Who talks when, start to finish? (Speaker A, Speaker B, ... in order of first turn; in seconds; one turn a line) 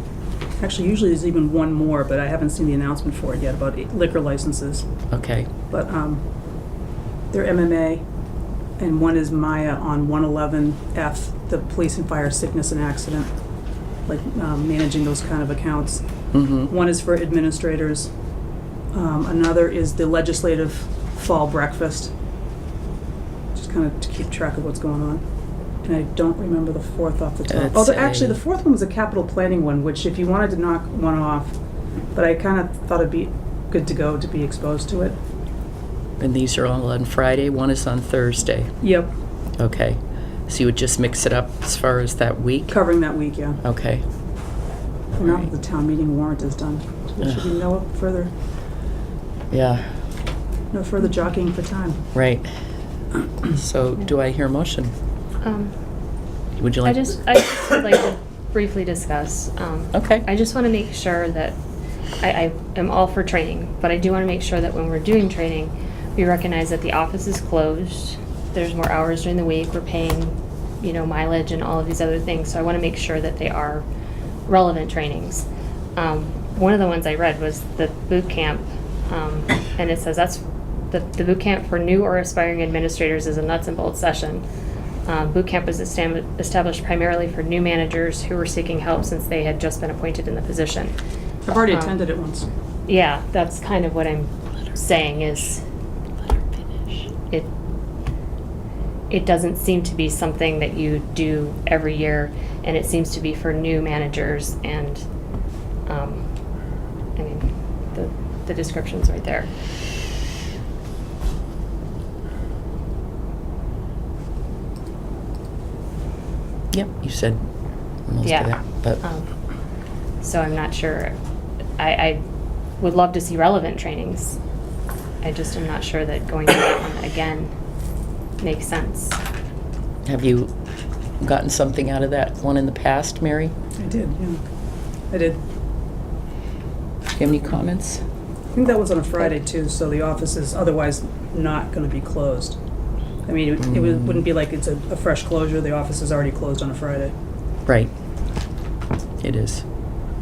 Speaker A: 0.6-4.8
Speaker B: 5.1-5.5
Speaker A: 5.7-6.2
Speaker A: 7.3-8.0
Speaker A: 8.8-13.3
Speaker A: 14.1-16.0
Speaker B: 16.3-16.7
Speaker A: 16.7-18.1
Speaker A: 18.9-22.1
Speaker A: 23.5-25.2
Speaker A: 25.8-31.5
Speaker B: 27.5-28.4
Speaker A: 32.1-35.2
Speaker B: 36.2-38.7
Speaker A: 38.8-39.1
Speaker B: 39.6-42.8
Speaker A: 42.7-43.6
Speaker B: 43.6-44.0
Speaker A: 45.1-48.3
Speaker B: 49.5-49.9
Speaker A: 50.7-52.0
Speaker B: 52.1-52.5
Speaker B: 53.5-54.9
Speaker C: 55.4-55.7
Speaker B: 56.6-57.1
Speaker C: 56.8-61.5
Speaker B: 59.9-60.2
Speaker C: 62.2-73.8
Speaker C: 74.5-75.4
Speaker C: 76.0-84.4
Speaker C: 85.0-91.0
Speaker A: 91.4-92.5
Speaker C: 91.7-92.0
Speaker C: 92.8-95.6
Speaker C: 96.9-97.5
Speaker C: 99.1-105.0
Speaker C: 105.8-106.2
Speaker C: 107.2-109.5
Speaker B: 116.7-117.5
Speaker B: 118.0-119.0
Speaker C: 118.2-119.3
Speaker C: 120.2-121.1
Speaker C: 121.8-122.2
Speaker C: 122.8-124.3
Speaker C: 125.2-127.5
Speaker C: 128.4-129.2
Speaker B: 130.0-130.5
Speaker B: 131.2-133.5
Speaker A: 133.8-134.4
Speaker A: 135.1-135.4
Speaker B: 137.2-138.0
Speaker A: 138.5-142.6
Speaker A: 143.2-147.1
Speaker B: 147.7-147.9
Speaker B: 149.2-149.6